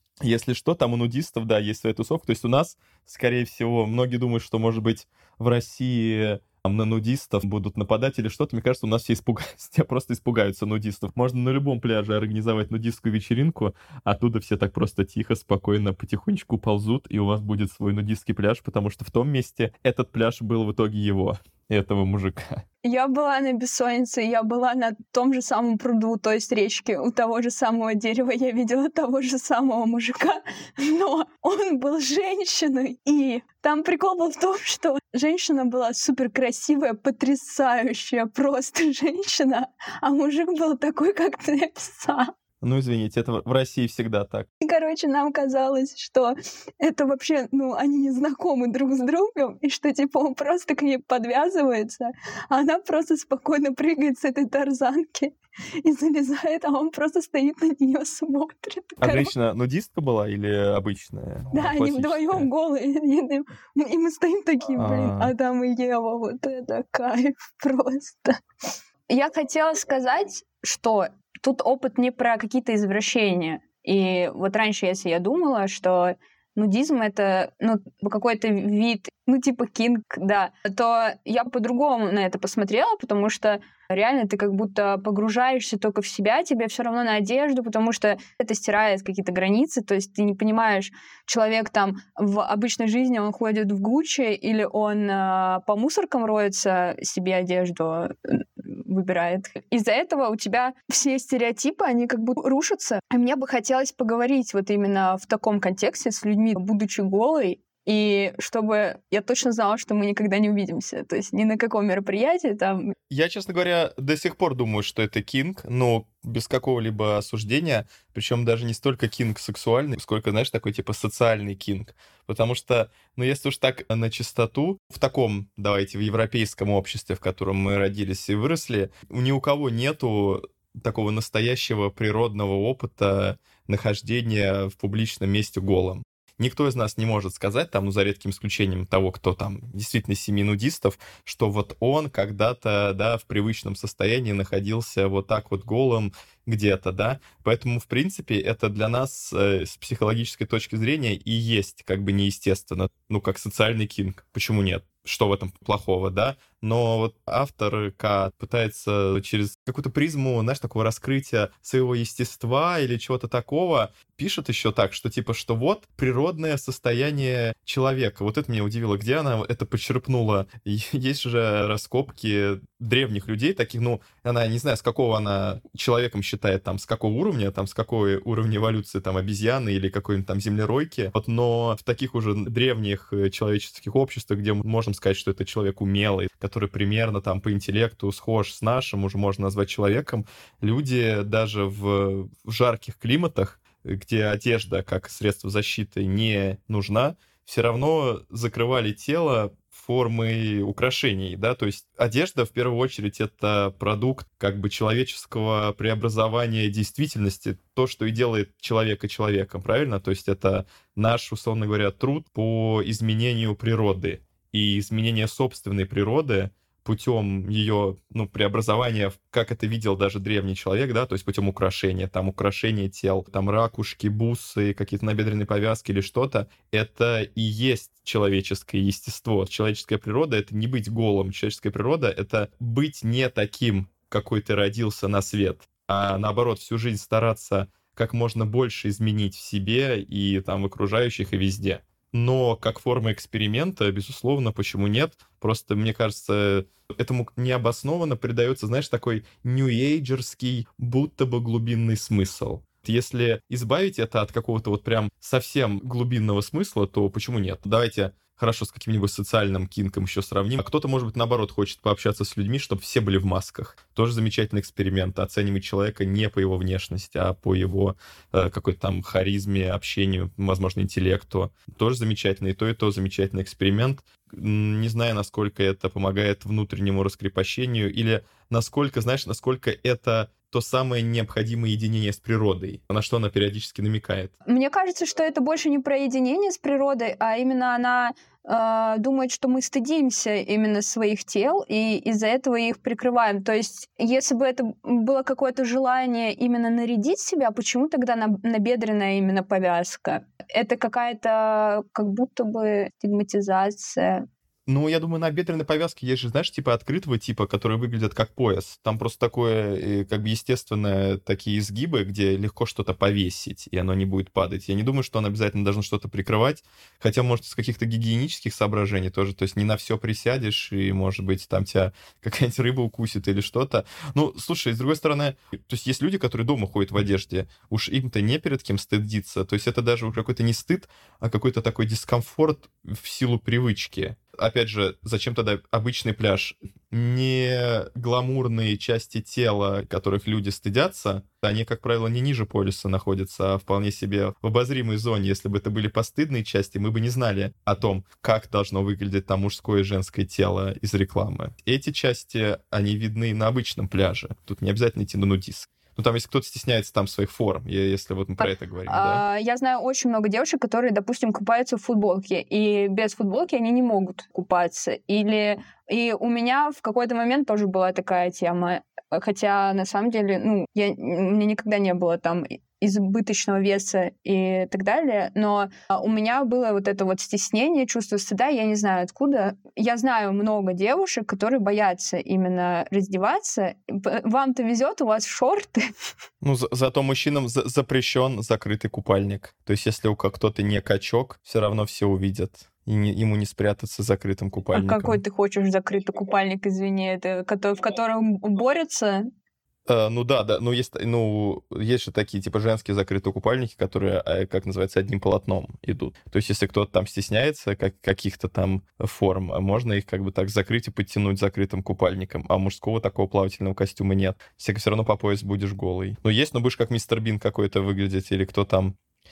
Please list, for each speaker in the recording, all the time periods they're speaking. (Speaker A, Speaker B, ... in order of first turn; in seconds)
Speaker A: 0.2-22.6, 42.6-44.5, 59.0-62.5, 64.8-65.3, 113.1-284.3, 304.7-359.2, 386.4-395.2, 399.9-419.0
Speaker B: 22.8-42.3, 44.6-59.3, 61.5-68.4, 69.1-112.9, 284.5-304.2, 358.4-385.9, 394.7-399.3